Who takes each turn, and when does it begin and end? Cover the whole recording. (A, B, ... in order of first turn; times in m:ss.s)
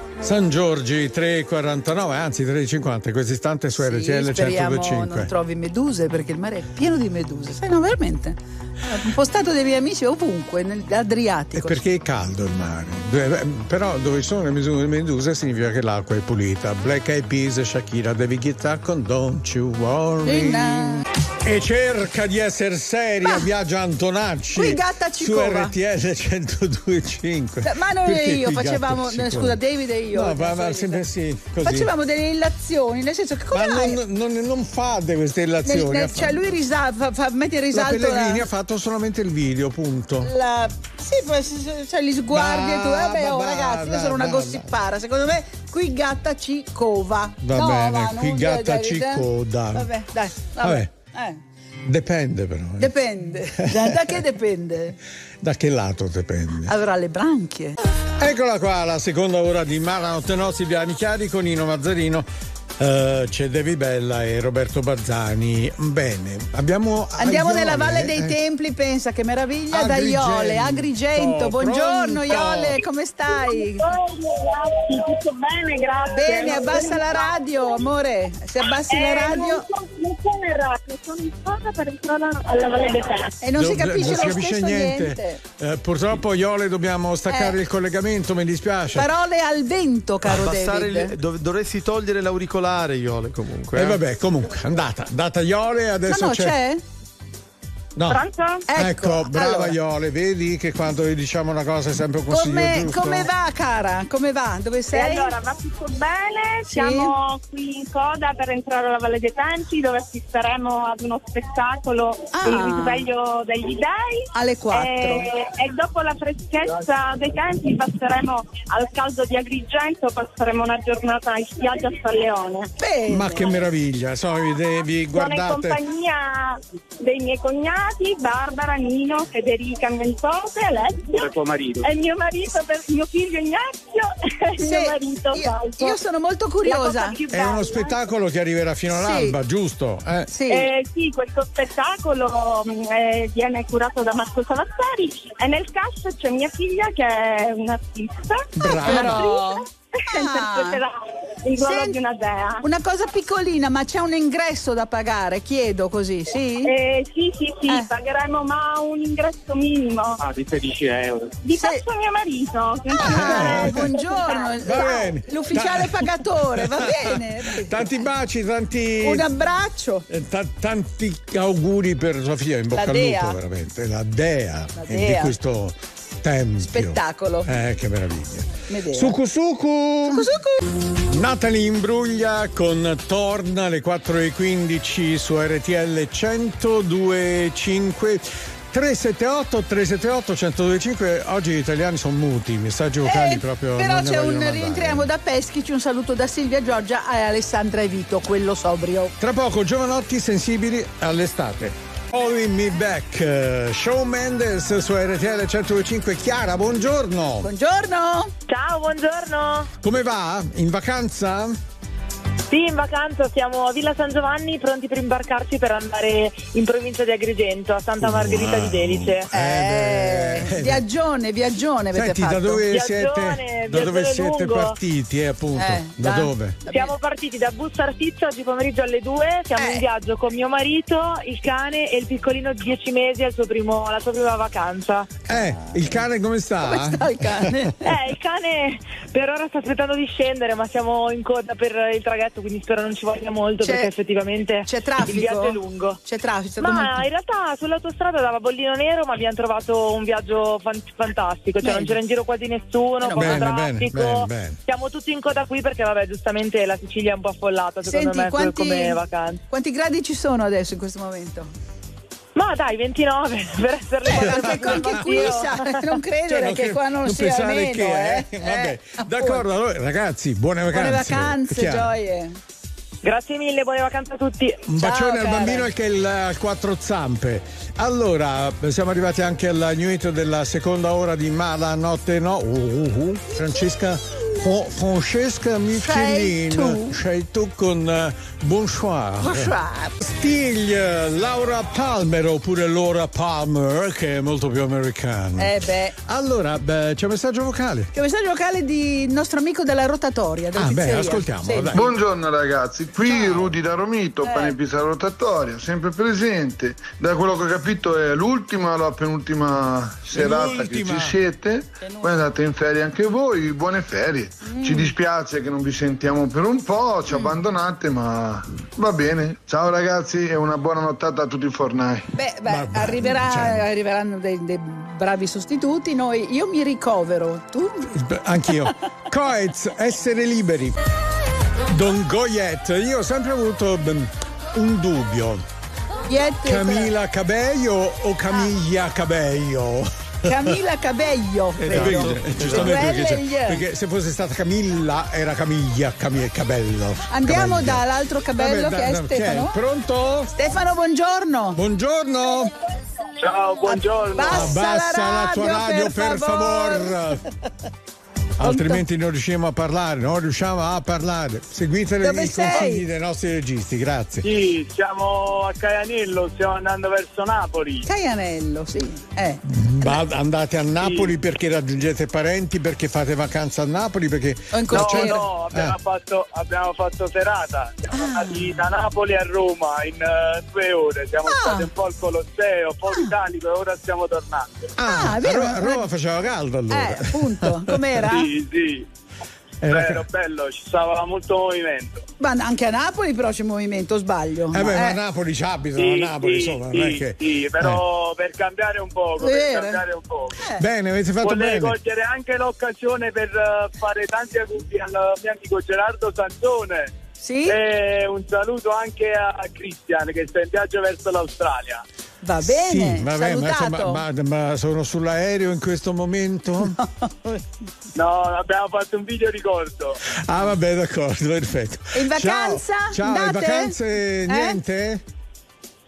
0:00.2-0:05.3 A
0:03.8-0:11.8 B
0:11.5-0:29.6 A
0:20.2-0:21.0 B
0:24.5-0:25.7 B
0:27.6-0:31.0 B
0:30.1-0:31.9 A
0:31.6-0:34.0 B
0:33.5-0:36.5 A
0:35.6-0:38.4 B
0:37.7-0:40.3 A
0:40.2-0:51.4 B
0:42.3-0:44.7 A
0:47.4-0:49.9 A
0:50.6-0:50.9 A
0:51.8-0:52.9 A
0:52.8-0:55.0 B
0:53.5-0:54.2 A
0:55.4-0:56.7 A
0:56.6-0:57.8 B
0:58.2-1:02.3 A
1:02.8-1:08.4 A
1:07.2-1:13.9 B
1:09.7-1:12.8 A
1:13.3-1:17.8 C
1:16.1-1:19.6 B
1:18.8-1:23.3 C
1:23.4-1:25.4 B
1:23.6-1:29.1 A
1:27.3-1:27.6 B
1:28.9-1:31.1 B
1:30.2-1:34.0 D
1:33.7-1:36.6 A
1:36.1-1:36.8 B
1:38.0-1:38.2 A
1:38.1-1:38.6 C
1:38.7-1:39.7 B
1:38.7-1:43.3 A
1:42.3-1:45.3 B
1:44.9-2:02.7 C
1:46.7-1:47.1 B
1:52.3-1:53.1 B
1:54.3-1:55.3 B
2:02.8-2:03.6 B
2:03.1-2:05.8 A
2:05.1-2:16.0 C
2:14.6-2:17.2 B
2:16.6-2:18.0 C
2:17.3-2:20.3 A
2:18.9-2:19.4 B
2:20.3-2:20.7 B
2:20.5-2:32.6 C
2:28.6-2:29.2 A
2:28.7-2:30.8 B
2:31.6-2:32.0 B
2:32.6-2:36.7 B
2:36.6-2:40.2 C
2:41.4-2:44.9 C
2:41.6-2:41.8 B
2:42.9-2:48.0 B
2:43.0-2:43.9 A
2:44.6-2:49.3 A
2:49.0-2:50.0 B
2:50.1-3:00.3 A
2:52.7-2:53.4 B
2:54.8-2:55.3 B
2:56.6-2:57.5 B
2:58.7-2:59.2 B
3:00.0-3:00.6 B
3:01.0-3:15.1 A
3:13.0-3:19.1 B
3:19.2-3:27.5 A
3:27.4-3:28.3 B
3:28.5-3:29.7 E
3:29.8-3:31.6 A
3:32.5-3:39.3 E
3:38.0-3:40.8 A
3:39.3-3:42.7 B
3:41.9-3:46.6 A
3:42.7-3:44.8 E
3:45.6-3:46.9 B
3:46.7-3:55.2 E
3:49.6-3:49.8 B
3:55.3-3:57.6 A
3:56.6-3:57.9 B
3:57.8-4:06.0 E
4:03.6-4:03.9 B
4:04.6-4:07.0 B
4:06.6-4:19.4 E
4:11.6-4:11.9 B
4:13.0-4:13.4 B
4:13.2-4:14.6 A
4:17.8-4:19.0 B
4:19.5-4:21.5 B
4:22.3-4:25.8 E
4:24.0-4:29.4 B
4:24.1-4:25.4 A
4:26.3-4:31.9 A
4:30.7-4:32.4 B
4:33.0-4:34.6 E
4:34.7-4:57.9 A
4:34.8-4:35.7 B
4:45.8-4:47.0 B
4:49.2-4:50.0 B
4:55.4-4:55.9 B
4:57.9-5:01.8 B
5:00.5-5:01.9 A
5:01.7-5:22.1 F
5:03.1-5:03.5 A
5:04.2-5:04.5 B
5:10.1-5:11.2 A
5:11.8-5:12.1 B
5:14.4-5:14.9 B
5:22.1-5:27.9 B
5:22.4-5:23.6 A
5:27.9-5:30.8 A
5:31.7-5:35.4 A
5:36.1-5:36.9 B
5:36.4-5:40.6 A
5:40.2-5:43.6 B
5:41.6-5:42.8 D
5:41.7-5:50.3 A
5:47.1-5:49.6 B
5:50.3-5:51.6 B
5:51.5-5:52.5 A
5:53.2-5:54.6 G
5:53.7-5:57.0 B
5:54.2-5:57.2 A
5:58.4-6:04.3 A
5:58.4-5:58.8 B
6:02.0-6:02.8 B
6:04.2-6:07.9 G
6:07.8-6:09.9 B
6:09.4-6:15.7 A
6:10.8-6:11.1 G
6:14.5-6:15.3 B
6:14.7-6:24.7 G
6:17.9-6:18.5 B
6:21.2-6:21.7 B
6:24.8-6:28.0 A
6:24.8-6:25.9 B
6:26.7-6:28.3 B
6:28.1-6:28.9 G
6:29.6-6:30.0 A
6:29.7-6:32.0 G
6:32.2-6:35.0 B
6:34.5-6:37.8 A
6:35.8-6:40.4 G
6:39.2-6:39.8 B
6:40.6-6:41.8 A
6:41.2-6:46.9 G
6:47.2-6:47.6 B
6:47.4-6:51.8 G
6:52.2-6:54.0 B
6:52.4-6:56.8 A
6:56.7-6:57.4 B
6:57.9-7:00.0 G
7:00.1-7:05.0 A
7:01.9-7:03.8 B
7:04.3-7:04.6 B